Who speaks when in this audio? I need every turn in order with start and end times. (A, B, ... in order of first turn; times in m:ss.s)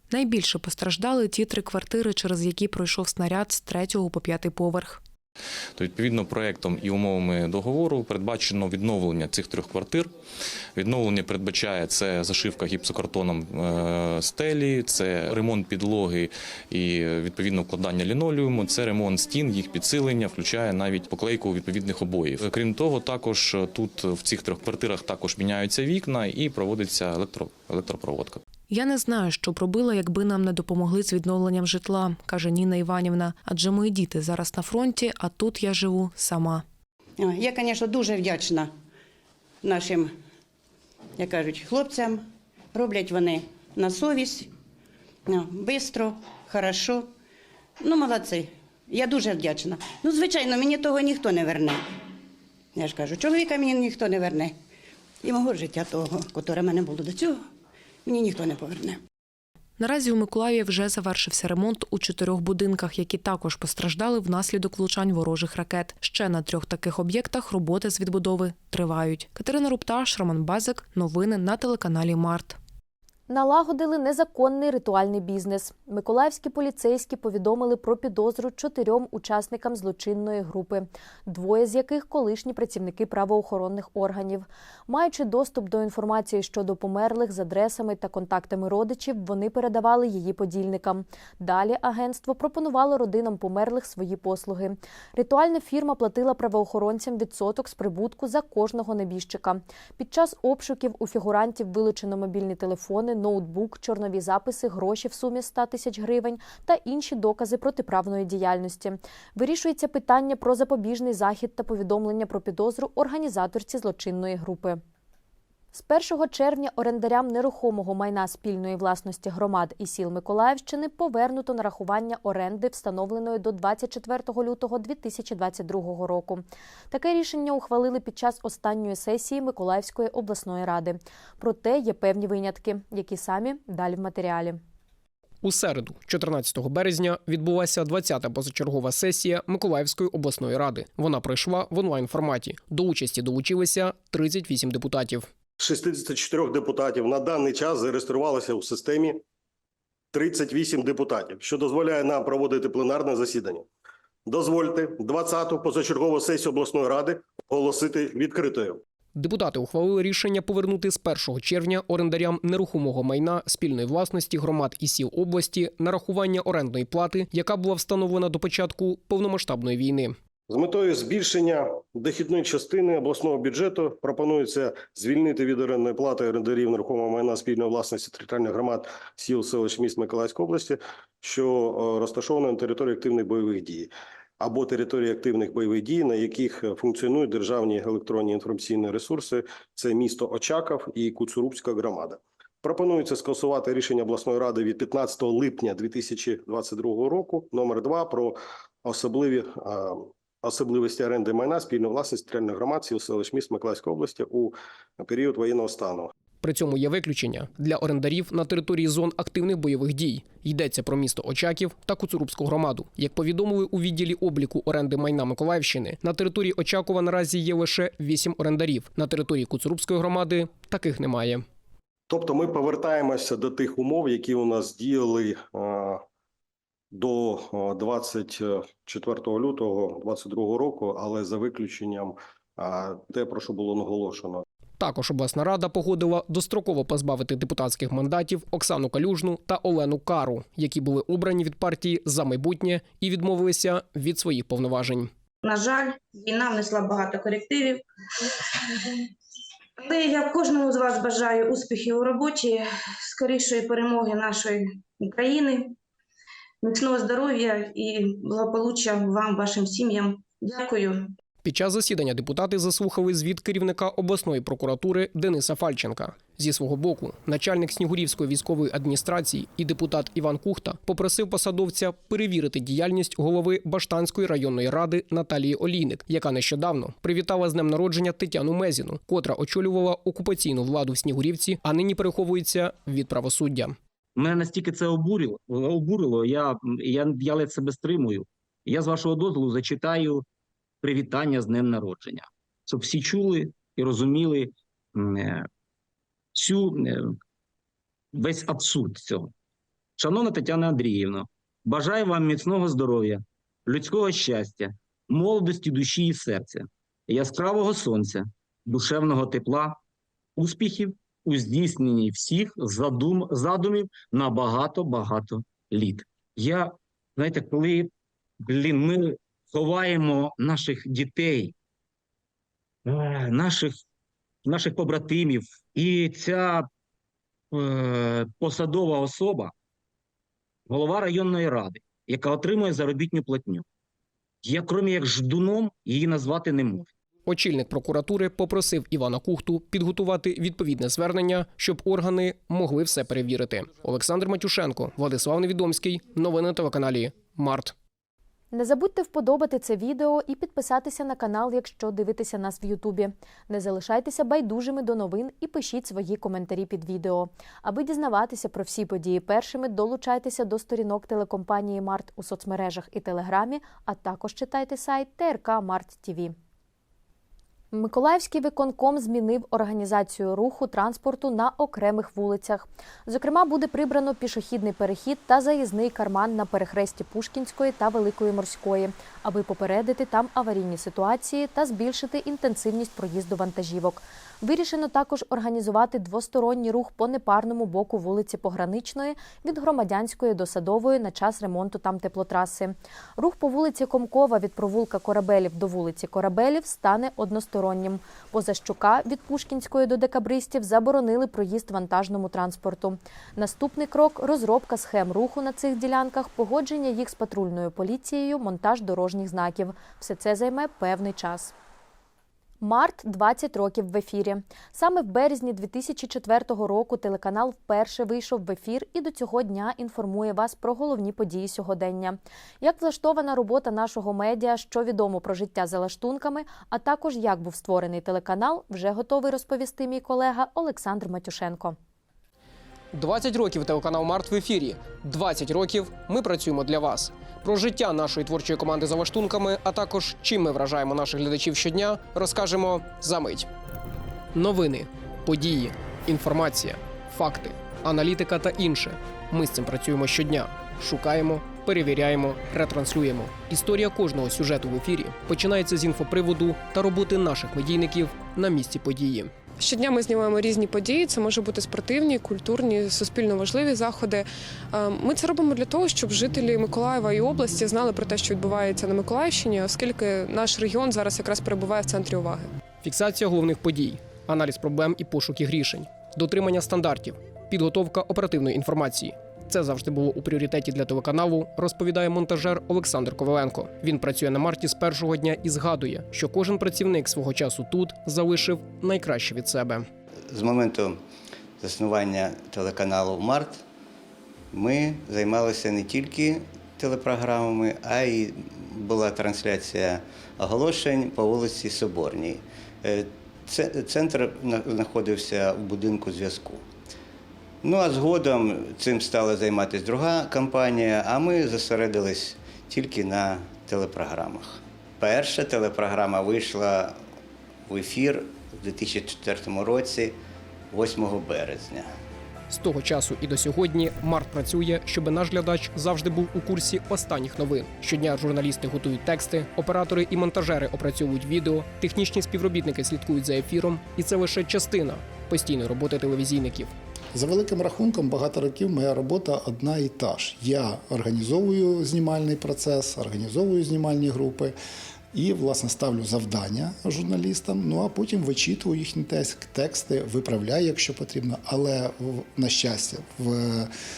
0:00.1-0:05.0 A
0:05.8-0:10.1 B
0:10.8-0:28.4 B
0:28.7-0:36.6 A
0:37.2-0:38.7 C
0:39.6-0:40.1 C
0:41.2-0:44.5 C
0:45.3-0:47.1 C
0:47.8-0:51.8 C
0:52.7-0:54.6 C
0:55.2-0:57.4 C
0:58.0-0:59.0 C
0:59.8-1:12.6 A
1:13.3-1:54.8 D
1:55.7-2:14.6 D
2:15.4-2:25.3 E
2:25.6-2:29.2 F
2:30.1-2:33.7 F
2:34.2-2:38.8 F
2:39.1-2:50.2 E
2:50.5-3:26.1 F
3:26.4-3:41.4 E
3:42.1-3:46.0 F
3:46.9-3:54.4 F
3:54.8-4:05.1 E
4:05.4-4:07.8 G
4:09.8-4:15.8 G
4:16.6-4:21.1 G
4:21.4-4:43.8 E
4:44.2-4:50.2 H
4:50.8-4:55.4 H
4:56.3-4:57.0 H
4:58.1-4:59.3 H
5:00.0-5:09.8 H
5:10.4-5:17.9 H
5:18.4-5:21.5 H
5:22.8-5:23.8 H
5:24.4-5:26.7 H
5:27.5-5:29.5 H
5:30.7-5:33.6 H
5:34.4-5:36.8 H
5:37.2-5:47.7 E
5:48.5-6:06.3 D
6:07.7-6:51.5 D
6:52.6-7:11.8 D
7:12.9-7:23.5 E
7:24.3-7:39.3 E
7:39.6-7:52.5 I
7:52.8-8:09.8 E
8:10.3-8:11.0 J
8:11.6-8:13.6 J
8:14.5-8:26.6 J
8:27.6-8:37.0 J
8:37.7-8:40.2 J
8:40.7-8:41.9 J
8:42.5-8:56.7 E
8:57.2-9:04.5 K
9:05.2-9:13.7 K